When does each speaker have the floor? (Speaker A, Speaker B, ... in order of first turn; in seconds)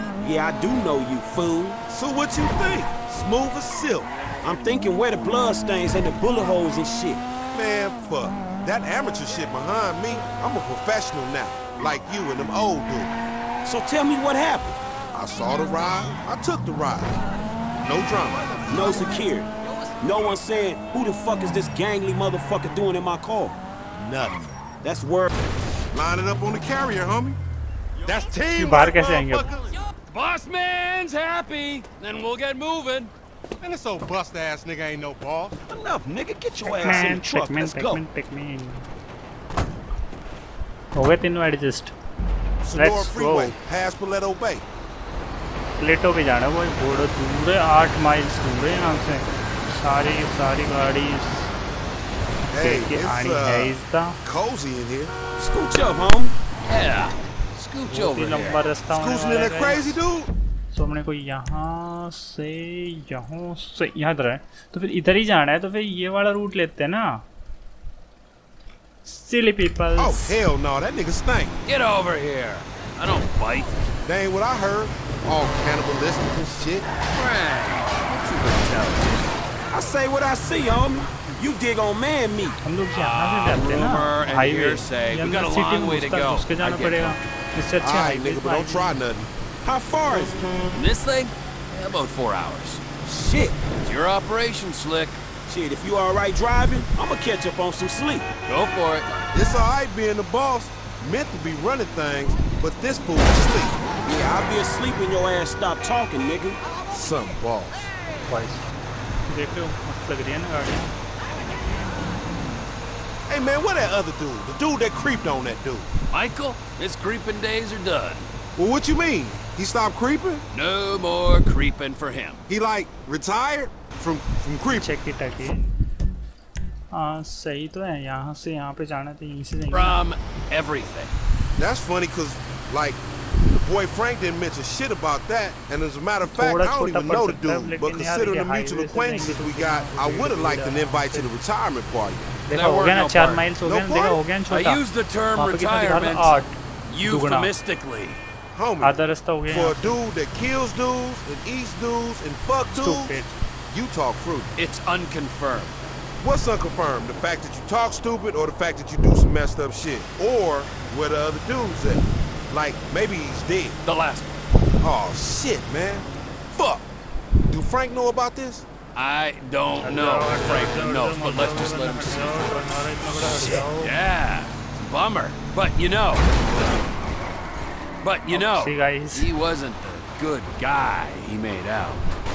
Speaker A: 0.2-1.8, 4.4-7.2, 13.7-14.8, 18.7-19.5, 20.0-23.6, 24.8-25.3, 35.7-38.0, 55.4-56.4, 79.7-82.6, 89.7-90.5, 93.0-93.6, 95.5-98.3, 104.0-106.6
Speaker B: 1.9-4.1, 7.5-13.1, 15.1-17.2, 17.8-18.4, 23.9-24.6, 25.9-27.4, 28.0-29.7, 33.6-35.6, 42.6-44.6, 52.5-55.1, 58.9-60.3, 70.0-71.5, 74.0-76.9, 87.8-89.3, 99.3-103.8, 106.9-107.9, 113.3-115.9, 118.6-120.4, 122.5-124.9, 131.6-133.0, 133.6-142.3, 143.6-144.2, 148.5-153.2, 153.7-154.5, 156.2-163.8, 164.8-166.9, 167.5-168.7
Speaker C: 19.7-20.0, 30.1-33.1, 56.7-58.6, 71.7-73.8, 77.1-79.3, 82.9-87.3, 90.7-92.8, 93.8-95.2, 98.5-99.1, 116.1-118.3, 120.5-122.4, 129.7-131.1, 142.5-143.5, 144.5-148.2, 154.6-155.8, 163.8-164.5, 168.9-176.3, 178.0-182.0
Speaker D: 28.5-29.5, 36.7-38.9, 41.0-42.0, 42.7-43.6, 45.8-51.5, 52.6-54.2, 57.9-60.0, 60.7-67.2, 69.0-70.4, 82.6-89.0, 108.3-108.7, 109.3-110.9, 124.8-125.8, 126.9-130.0, 136.3-141.3, 142.5-144.8, 145.3-147.5, 148.8-150.0, 152.7-153.4, 169.8-173.9, 178.3-179.3